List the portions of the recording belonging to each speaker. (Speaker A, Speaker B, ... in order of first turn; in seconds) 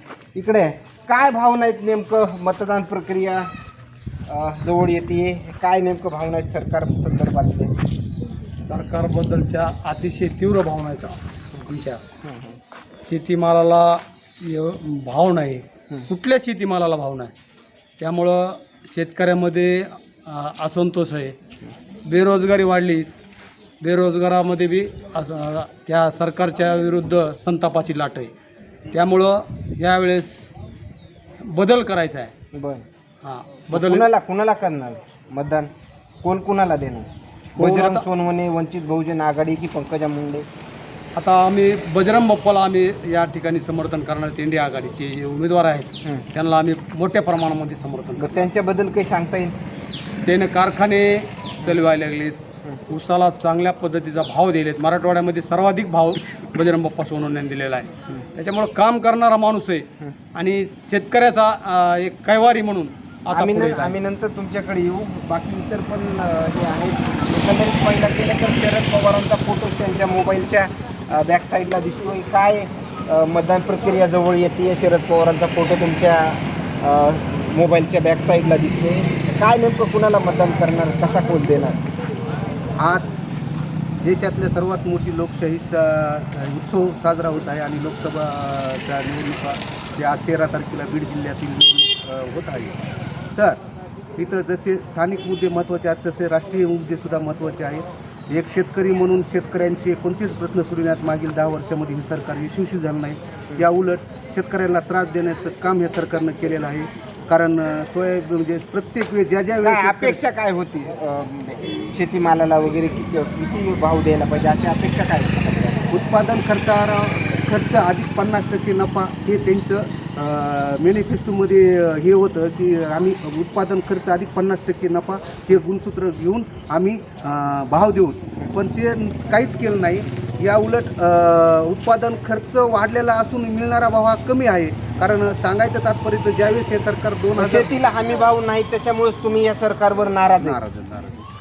Speaker A: 0.3-3.5, 4.3-7.7, 12.2-12.6, 32.5-32.8, 33.7-35.7, 36.2-40.5, 48.2-49.5, 63.3-81.8, 109.6-115.8, 137.3-140.6
Speaker B: 8.6-12.0, 13.1-17.3, 18.0-21.3, 22.1-23.1, 23.8-28.3, 28.9-30.5, 31.5-32.3, 33.2-34.0, 37.5-38.0, 41.1-48.4, 50.2-63.9
Speaker C: 82.8-83.1, 84.0-92.8, 94.2-110.2, 115.9-137.7, 140.4-141.2